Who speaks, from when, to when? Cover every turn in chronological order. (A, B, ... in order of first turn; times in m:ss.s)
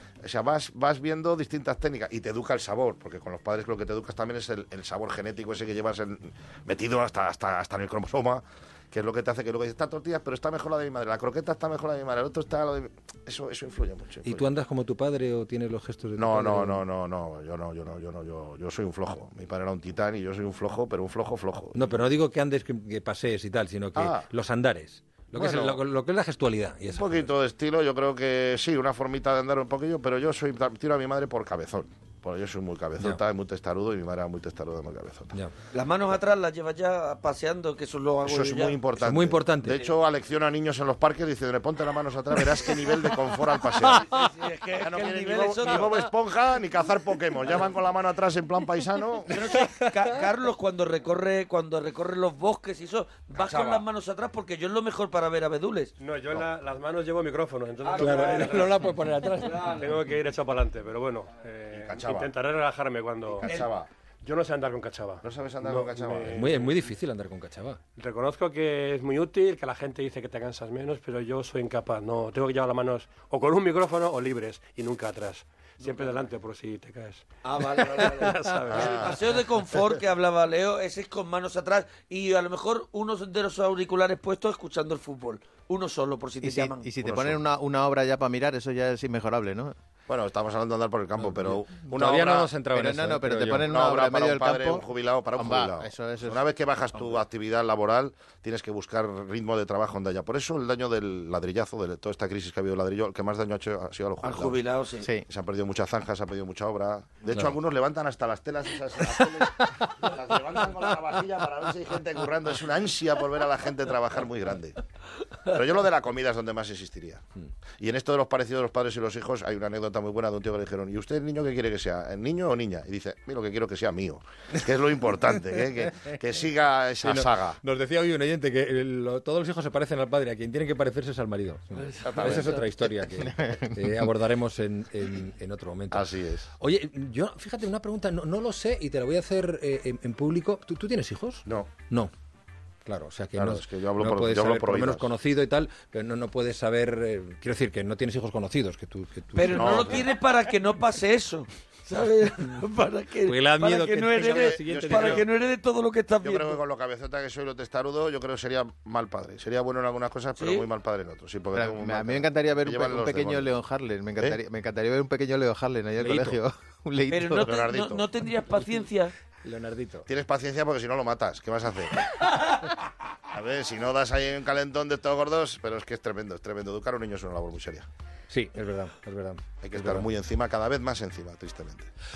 0:00.2-0:14.4 A
0:14.2-0:16.8 B
0:16.2-0:21.8 A
0:21.7-0:27.3 B
0:24.0-0:24.3 A
0:25.4-0:25.8 A
0:26.9-0:35.4 A
0:35.7-0:38.8 C
0:38.2-0:44.1 A
0:39.0-0:39.8 B
0:44.0-0:44.2 B
0:44.0-0:46.0 C
0:44.8-0:49.4 A
0:49.3-0:55.9 C
0:49.3-0:49.9 B
0:53.4-0:53.8 A
0:56.0-0:58.9 D
0:58.0-0:59.9 B
0:59.5-1:03.5 D
1:01.7-1:02.3 A
1:03.3-1:03.9 A
1:04.2-1:06.8 D
1:05.2-1:06.5 A
1:06.3-1:07.8 B
1:08.0-1:19.4 D
1:17.4-1:26.9 C
1:18.7-1:19.2 A
1:26.4-1:29.8 E
1:27.0-1:27.4 A
1:30.1-1:32.6 A
1:31.9-1:33.7 B
1:32.7-1:36.4 E
1:33.6-1:44.6 A
1:44.2-1:45.1 C
1:45.0-1:45.3 E
1:45.3-1:54.8 A
1:55.5-1:57.2 A
1:57.8-2:07.6 A
2:07.0-2:22.1 B
2:12.0-2:12.6 A
2:13.2-2:13.7 E
2:15.9-2:16.5 A
2:22.8-2:30.0 B
2:23.4-2:25.1 A
2:29.3-2:36.6 C
2:29.5-2:30.1 A
2:33.2-2:35.3 B
2:34.2-2:35.3 A
2:36.2-2:43.6 A
2:40.4-2:40.7 C
2:41.5-2:47.5 E
2:46.0-2:46.4 B
2:47.1-2:49.1 C
2:47.3-2:48.1 A
2:49.4-2:50.1 B
2:50.1-2:52.1 A
2:53.3-2:57.9 A
2:58.3-3:00.1 B
2:59.6-3:01.9 A